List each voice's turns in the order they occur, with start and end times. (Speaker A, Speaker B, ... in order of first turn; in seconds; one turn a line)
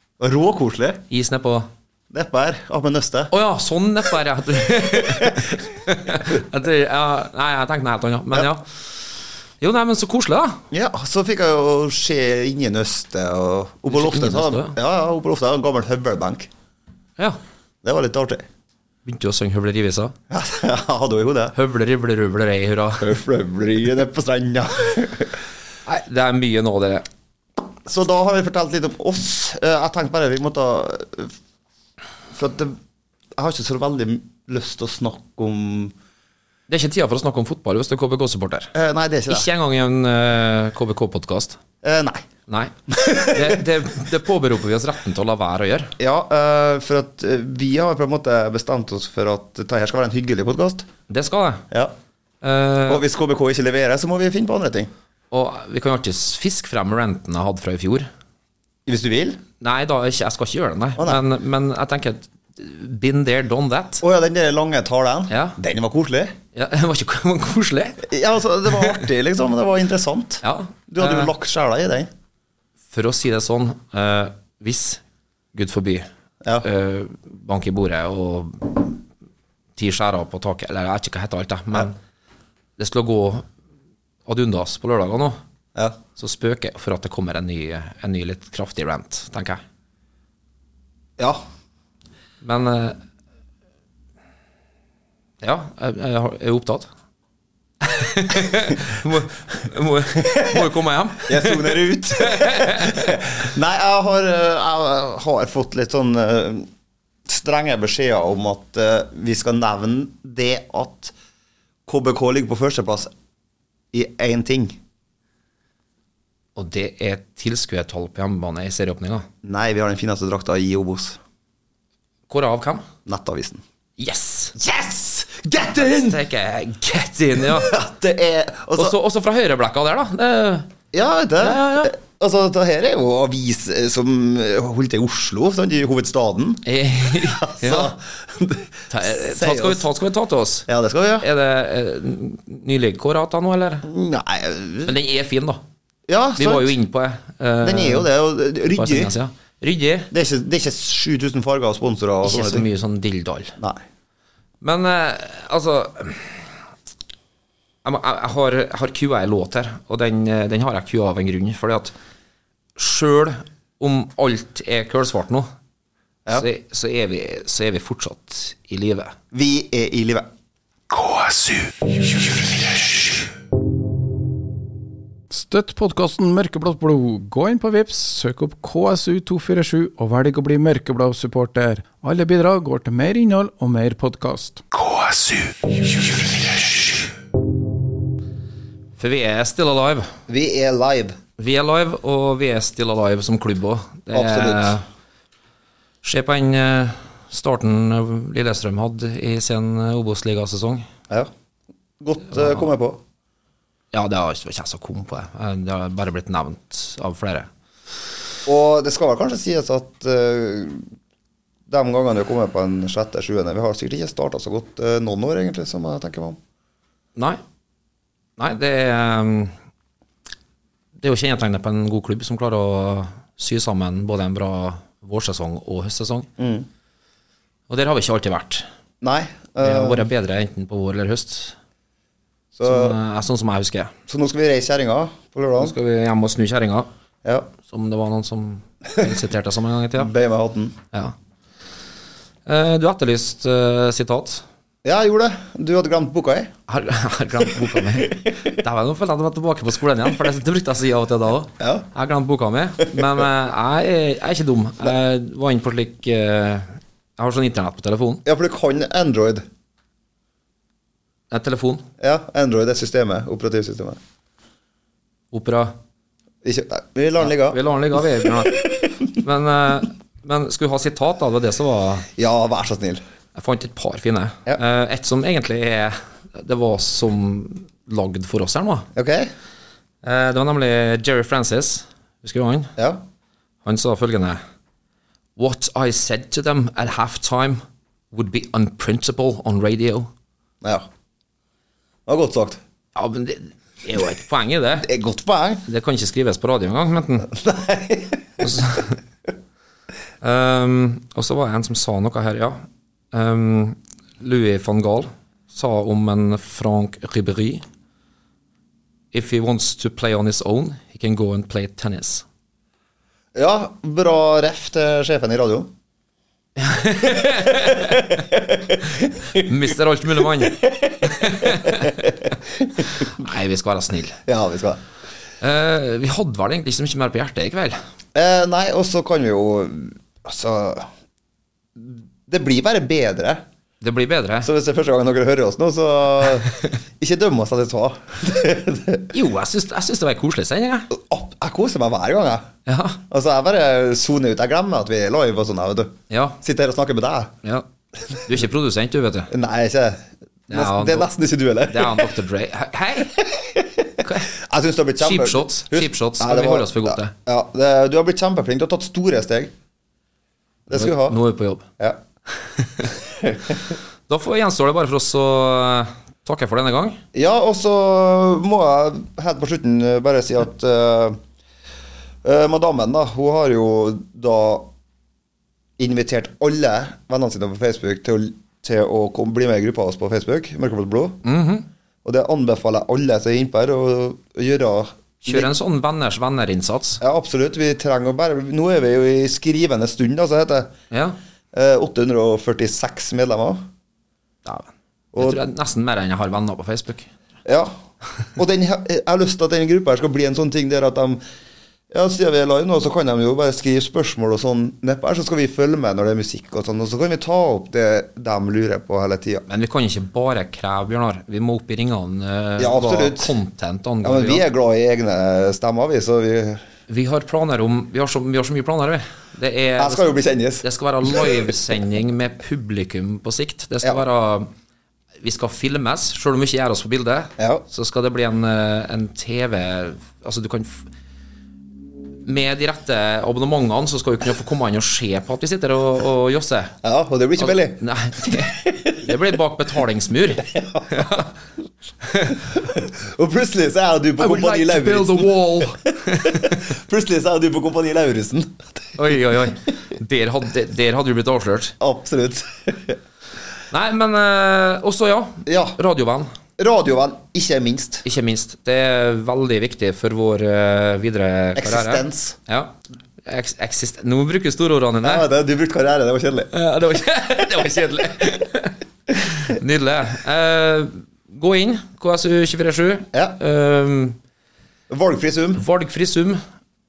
Speaker A: 0.2-1.0
Speaker B: 1.1-1.7
Speaker A: 2.1-3.3
Speaker B: 3.3-8.7
Speaker A: 5.0-5.5
Speaker B: 9.6-10.6
Speaker A: 10.7-16.5
Speaker B: 13.9-14.8
Speaker A: 17.8-18.4
Speaker B: 19.0-20.1
Speaker A: 20.3-21.5
Speaker B: 21.5-23.1
Speaker A: 23.0-25.3
Speaker B: 25.9-27.0
Speaker A: 27.9-31.3
Speaker A: 32.3-32.8
Speaker A: 33.4-35.9
Speaker B: 36.7-38.7
Speaker A: 38.7-39.5
Speaker B: 39.3-41.6
Speaker A: 41.8-42.2
Speaker B: 42.5-45.9
Speaker A: 42.9-43.6
Speaker A: 46.0-50.9
Speaker B: 51.1-51.6
Speaker B: 52.4-53.0
Speaker A: 52.9-54.9
Speaker B: 55.3-58.1
Speaker A: 58.9-59.4
Speaker B: 59.6-64.0
Speaker A: 64.0-66.3
Speaker B: 65.3-65.6
Speaker B: 66.5-68.1
Speaker A: 68.0-72.1
Speaker B: 70.4-71.3
Speaker B: 72.9-75.0
Speaker B: 75.5-76.1
Speaker B: 76.6-79.0
Speaker B: 79.8-81.9
Speaker B: 82.8-83.5
Speaker B: 84.2-85.4
Speaker B: 86.2-89.6
Speaker B: 92.4-93.0
Speaker B: 95.4-96.9
Speaker B: 97.8-103.2
Speaker A: 100.2-100.6
Speaker A: 101.2-106.7
Speaker A: 107.2-111.1
Speaker A: 111.8-113.1
Speaker A: 113.9-114.8
Speaker B: 116.5-119.3
Speaker A: 119.4-121.2
Speaker B: 122.3-122.8
Speaker A: 123.0-123.6
Speaker B: 124.0-124.5
Speaker A: 124.5-126.2
Speaker B: 125.7-127.7
Speaker A: 127.4-128.9
Speaker B: 128.8-130.7
Speaker A: 130.9-136.6
Speaker B: 131.4-131.9
Speaker B: 136.6-137.9
Speaker A: 137.2-139.9
Speaker B: 138.9-140.7
Speaker A: 140.7-141.3
Speaker B: 141.2-143.9
Speaker A: 143.8-144.9
Speaker B: 144.8-145.6
Speaker A: 146.1-146.8
Speaker B: 146.4-148.1
Speaker A: 147.6-149.1
Speaker B: 148.7-150.1
Speaker A: 150.1-152.7
Speaker B: 152.2-153.6
Speaker B: 154.6-156.5
Speaker B: 157.8-161.9
Speaker B: 162.8-165.5
Speaker B: 166.3-169.1
Speaker A: 169.3-170.3
Speaker C: 170.9-173.3
Speaker C: 175.3-187.1
Speaker B: 189.0-190.1
Speaker A: 190.3-191.2
Speaker B: 191.4-194.8
Speaker A: 194.1-194.7
Speaker B: 196.0-200.8
Speaker A: 202.0-203.0
Speaker B: 202.3-202.7
Speaker B: 203.9-207.5
Speaker A: 208.4-210.8
Speaker A: 211.7-216.4
Speaker B: 218.4-219.5
Speaker B: 221.0-226.3
Speaker A: 226.4-226.7
Speaker B: 227.7-228.6
Speaker A: 229.0-230.1
Speaker B: 229.6-231.6
Speaker A: 232.5-233.0
Speaker B: 232.6-233.9
Speaker A: 234.1-235.8
Speaker B: 235.6-236.9
Speaker B: 237.6-240.1
Speaker A: 240.0-240.8
Speaker B: 242.4-244.4
Speaker A: 244.8-246.5
Speaker B: 246.7-258.2
Speaker A: 247.6-248.3
Speaker A: 251.6-251.8
Speaker A: 258.2-259.4
Speaker B: 261.3-261.8
Speaker A: 262.0-264.0
Speaker B: 265.3-265.7
Speaker A: 266.4-268.9
Speaker B: 267.2-272.1
Speaker A: 272.2-273.0
Speaker B: 273.3-278.9
Speaker A: 278.9-279.3
Speaker B: 280.0-282.7
Speaker A: 282.8-283.0
Speaker B: 283.6-284.4
Speaker B: 285.4-290.1
Speaker A: 292.1-292.6
Speaker B: 292.9-294.9
Speaker A: 294.8-295.6
Speaker B: 295.6-297.3
Speaker A: 297.3-298.6
Speaker B: 298.4-299.0
Speaker B: 300.2-307.6
Speaker B: 309.1-312.2
Speaker A: 313.3-315.7
Speaker B: 316.6-318.2
Speaker A: 317.2-319.5
Speaker B: 319.3-322.1
Speaker A: 320.4-322.9
Speaker B: 323.0-324.2
Speaker A: 324.3-324.8
Speaker B: 325.4-327.8
Speaker A: 328.1-330.9
Speaker A: 331.8-333.4
Speaker B: 333.8-334.5
Speaker A: 334.4-339.1
Speaker B: 339.1-340.9
Speaker A: 340.9-342.5
Speaker B: 342.7-343.0
Speaker A: 343.1-347.3
Speaker B: 346.1-346.4
Speaker B: 348.2-349.3
Speaker A: 349.3-352.1
Speaker B: 350.5-351.1
Speaker B: 351.7-353.2
Speaker A: 353.1-359.5
Speaker B: 354.0-354.3
Speaker B: 355.0-357.1
Speaker A: 360.7-361.2
Speaker B: 360.7-361.6
Speaker B: 362.6-362.9
Speaker A: 363.2-363.6
Speaker B: 364.1-367.0
Speaker A: 367.1-371.2
Speaker A: 372.2-374.7
Speaker A: 375.8-381.2
Speaker B: 381.2-381.6
Speaker A: 382.0-385.5
Speaker B: 385.2-387.0
Speaker A: 387.0-390.7
Speaker B: 390.9-391.2
Speaker A: 391.5-393.6
Speaker B: 394.4-397.1
Speaker A: 395.1-395.4
Speaker A: 397.4-397.7
Speaker A: 398.4-401.2
Speaker A: 401.9-409.4
Speaker B: 409.5-414.4
Speaker A: 412.6-413.3
Speaker A: 414.0-416.6
Speaker B: 416.9-424.5
Speaker A: 419.8-421.5
Speaker B: 425.2-430.9
Speaker A: 427.4-427.6
Speaker B: 432.2-436.7
Speaker A: 436.8-439.2
Speaker B: 437.4-441.3
Speaker A: 440.4-441.2
Speaker B: 442.1-442.4
Speaker A: 442.4-445.5
Speaker C: 444.2-445.8
Speaker B: 446.0-446.6
Speaker A: 446.0-448.6
Speaker B: 449.0-451.7
Speaker A: 451.8-453.0
Speaker B: 453.7-456.3
Speaker A: 455.4-455.8
Speaker A: 456.6-458.0
Speaker B: 458.0-465.3
Speaker A: 461.6-462.4
Speaker A: 465.0-466.5
Speaker B: 466.5-474.2
Speaker A: 473.1-473.4
Speaker A: 474.9-475.6
Speaker B: 475.5-476.4